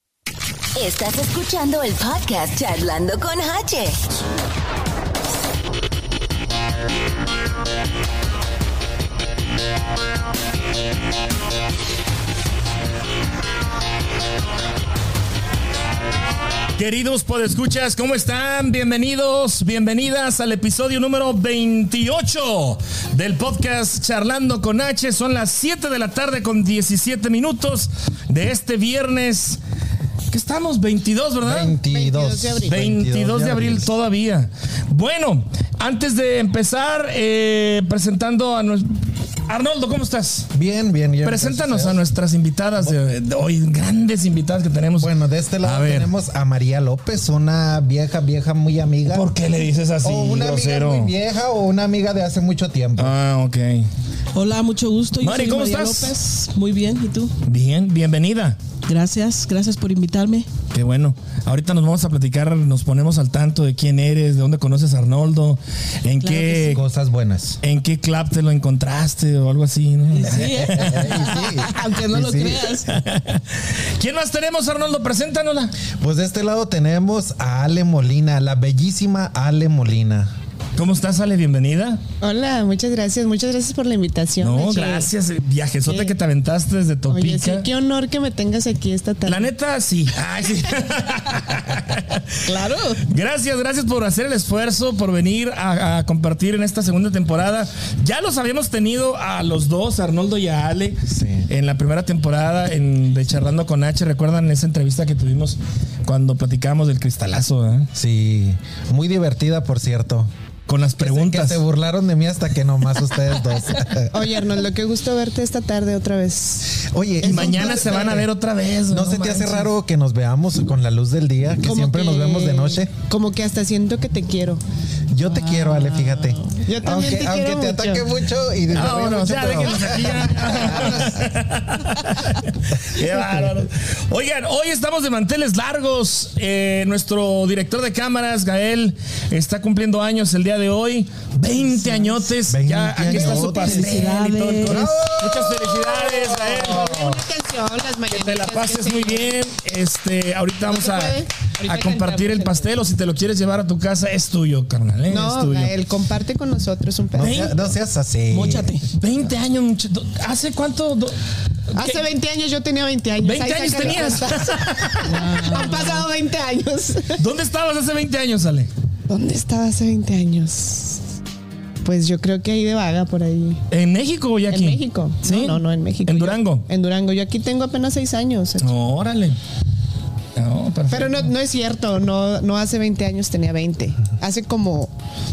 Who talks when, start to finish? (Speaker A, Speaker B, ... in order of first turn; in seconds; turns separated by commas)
Speaker A: 0.8-4.0, Speaker B: 16.8-29.6, Speaker B: 30.3-31.8, Speaker C: 31.4-33.9, Speaker D: 31.9-32.8, Speaker B: 32.7-40.5, Speaker C: 40.5-42.0, Speaker B: 41.2-46.1, Speaker C: 45.0-49.3, Speaker B: 49.1-51.1, Speaker C: 50.0-53.1, Speaker B: 53.0-53.9, Speaker E: 54.3-57.3, Speaker B: 55.2-56.1, Speaker B: 57.4-58.6, Speaker E: 58.9-60.5, Speaker B: 60.7-66.8, Speaker E: 66.2-66.8, Speaker C: 66.6-67.6, Speaker B: 67.6-71.4, Speaker C: 70.2-72.7, Speaker E: 70.2-73.0, Speaker B: 72.9-75.7, Speaker C: 75.9-80.3, Speaker B: 80.8-82.0, Speaker D: 82.2-85.1, Speaker B: 84.4-87.7, Speaker D: 85.8-86.1, Speaker D: 87.1-89.5, Speaker B: 89.2-92.4, Speaker E: 92.4-93.0, Speaker B: 93.1-107.9, Speaker C: 101.0-101.5, Speaker C: 107.9-110.3, Speaker B: 110.7-111.6, Speaker C: 111.0-114.3, Speaker D: 114.1-118.2, Speaker C: 116.8-118.3, Speaker B: 117.2-119.7, Speaker C: 118.9-122.9, Speaker D: 121.6-124.6, Speaker C: 125.1-131.2, Speaker E: 125.2-126.5, Speaker D: 126.6-128.0, Speaker B: 128.7-147.2, Speaker D: 130.0-131.2, Speaker E: 141.5-142.3, Speaker C: 142.5-144.1, Speaker E: 143.1-144.9, Speaker C: 144.6-146.7, Speaker D: 146.3-149.3, Speaker B: 148.1-155.7, Speaker D: 150.6-152.7, Speaker D: 155.1-157.5, Speaker C: 157.1-158.7, Speaker B: 157.2-157.5, Speaker E: 158.3-158.8, Speaker B: 158.9-161.2, Speaker B: 161.7-162.0, Speaker D: 161.7-167.2, Speaker B: 163.2-165.3, Speaker E: 165.0-166.0, Speaker B: 167.2-168.7, Speaker D: 169.1-171.0, Speaker D: 171.8-173.6, Speaker B: 173.7-176.6, Speaker D: 174.5-178.7, Speaker B: 178.6-179.4, Speaker B: 180.3-181.3, Speaker D: 180.9-184.9